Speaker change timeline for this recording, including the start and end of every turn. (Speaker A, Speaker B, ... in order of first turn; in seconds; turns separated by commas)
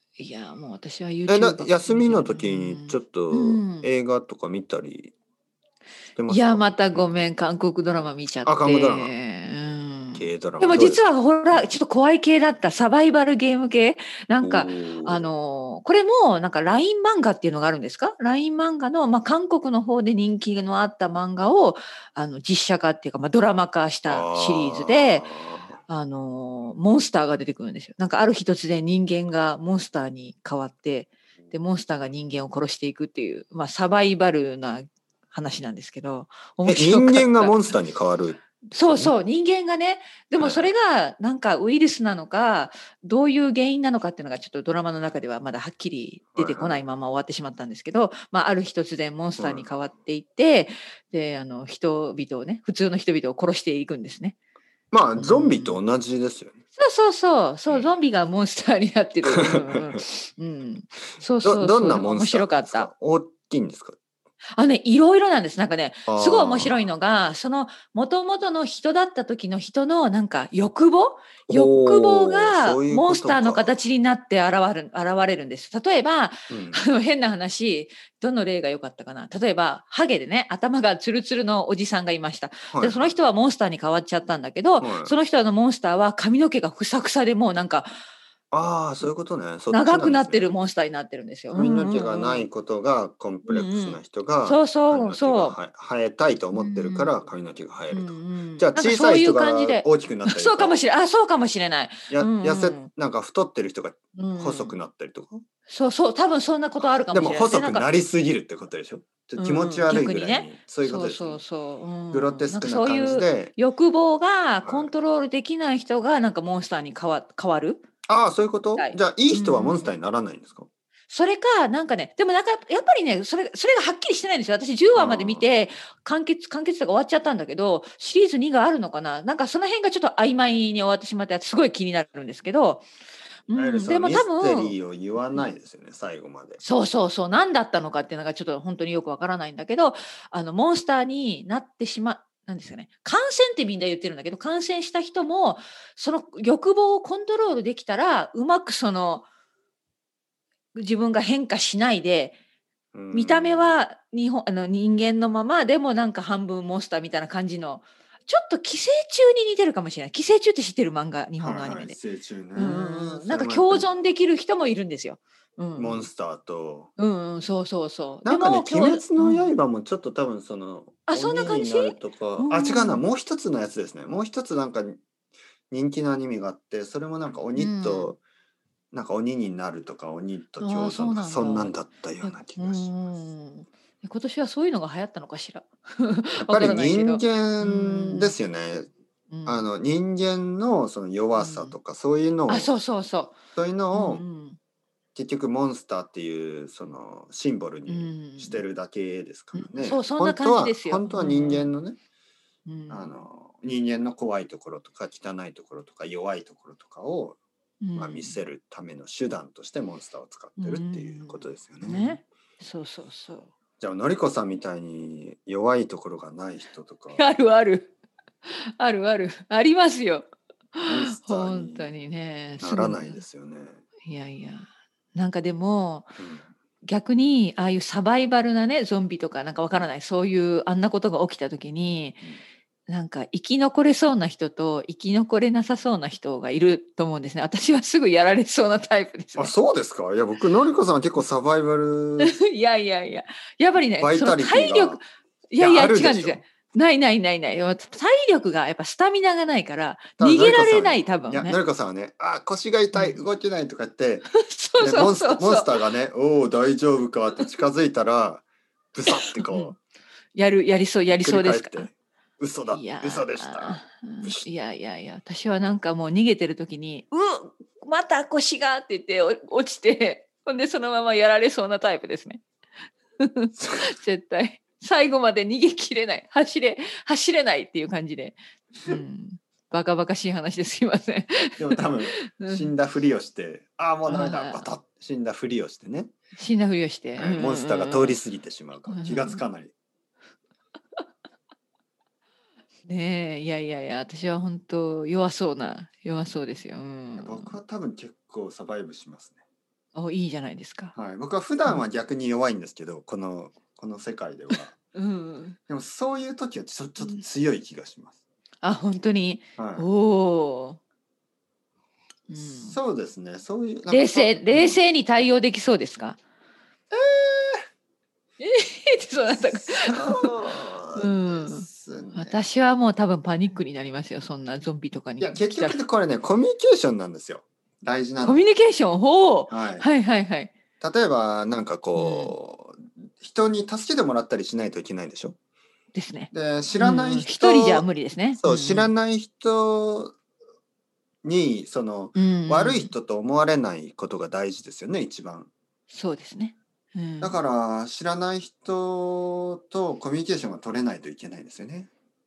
Speaker A: 0.2-3.9, Speaker B: 1.3-5.1, Speaker B: 6.2-7.0, Speaker A: 6.3-25.3, Speaker B: 8.4-9.1, Speaker B: 10.2-11.0, Speaker B: 14.4-15.3, Speaker B: 24.1-25.8, Speaker A: 25.9-37.7, Speaker B: 36.6-39.1, Speaker A: 38.7-54.4, Speaker B: 40.4-40.7, Speaker B: 46.4-46.8, Speaker B: 49.4-49.7, Speaker B: 54.9-56.5, Speaker A: 55.2-55.8, Speaker A: 56.8-62.9, Speaker B: 59.2-60.0, Speaker B: 61.4-64.0, Speaker A: 64.5-87.9, Speaker B: 66.1-66.9, Speaker B: 71.5-73.8, Speaker B: 76.5-76.8, Speaker B: 82.7-83.1, Speaker B: 84.8-85.2, Speaker B: 88.5-90.6, Speaker A: 89.7-92.5, Speaker B: 91.5-100.8, Speaker A: 93.5-95.6, Speaker A: 96.5-97.2, Speaker A: 97.9-102.9, Speaker B: 102.1-105.4, Speaker A: 104.2-104.8, Speaker A: 105.7-107.9, Speaker B: 106.8-111.4, Speaker A: 109.4-117.8, Speaker B: 112.1-113.5, Speaker B: 114.6-114.9, Speaker B: 118.1-120.7, Speaker A: 118.8-119.9, Speaker A: 121.1-132.9, Speaker B: 125.0-125.5, Speaker A: 133.5-134.8, Speaker B: 133.5-136.6, Speaker A: 136.6-149.2, Speaker A: 150.8-152.4, Speaker B: 152.9-153.8, Speaker A: 153.1-162.0, Speaker B: 161.4-163.9, Speaker A: 162.6-166.1, Speaker B: 165.8-166.9, Speaker A: 167.0-169.5, Speaker B: 168.2-175.0, Speaker A: 171.1-173.0, Speaker B: 175.7-178.2, Speaker A: 177.6-178.1, Speaker B: 178.9-182.9, Speaker A: 180.6-188.3, Speaker B: 186.4-188.9, Speaker A: 189.3-189.7, Speaker B: 189.5-192.7, Speaker A: 191.4-191.8, Speaker A: 192.5-193.4, Speaker B: 193.6-194.2, Speaker A: 193.9-194.6, Speaker B: 195.2-202.0, Speaker A: 197.9-198.6, Speaker A: 199.6-201.7, Speaker A: 202.7-203.1, Speaker B: 202.9-207.4, Speaker A: 207.8-208.4, Speaker B: 208.0-212.2, Speaker A: 210.6-213.5, Speaker B: 213.8-217.2, Speaker A: 217.1-217.9, Speaker A: 218.5-223.2, Speaker B: 220.8-221.9, Speaker B: 222.6-223.8, Speaker A: 224.1-226.2, Speaker B: 226.2-226.5, Speaker A: 226.8-232.3, Speaker A: 232.9-239.5, Speaker B: 239.4-242.4, Speaker A: 242.2-251.6, Speaker B: 244.0-245.0, Speaker B: 245.6-246.4, Speaker B: 250.2-259.8, Speaker A: 252.9-253.2, Speaker A: 254.3-255.7, Speaker A: 259.1-259.8, Speaker A: 260.4-261.9, Speaker B: 261.2-264.5, Speaker A: 262.7-272.4, Speaker A: 273.2-282.7, Speaker B: 273.6-273.9, Speaker B: 281.6-286.1, Speaker A: 284.1-284.7, Speaker A: 286.4-288.2, Speaker B: 287.2-289.7, Speaker A: 288.9-289.4, Speaker A: 292.9-297.6, Speaker B: 297.2-299.4, Speaker A: 299.9-300.9, Speaker B: 300.9-304.8, Speaker A: 304.5-305.6, Speaker B: 305.7-308.2, Speaker A: 308.6-310.8, Speaker B: 309.6-309.9, Speaker A: 312.3-312.8, Speaker B: 312.4-314.8, Speaker A: 313.9-316.2, Speaker B: 316.9-317.6, Speaker A: 318.4-320.3, Speaker B: 319.3-322.4, Speaker A: 320.9-325.8, Speaker B: 325.2-328.4, Speaker A: 328.2-330.5, Speaker B: 329.5-329.9, Speaker B: 330.8-335.4, Speaker A: 332.0-332.4, Speaker A: 335.9-338.9, Speaker B: 336.3-337.9, Speaker B: 338.4-340.1, Speaker B: 341.2-345.5, Speaker A: 342.1-342.9, Speaker A: 345.9-347.4, Speaker B: 347.2-351.9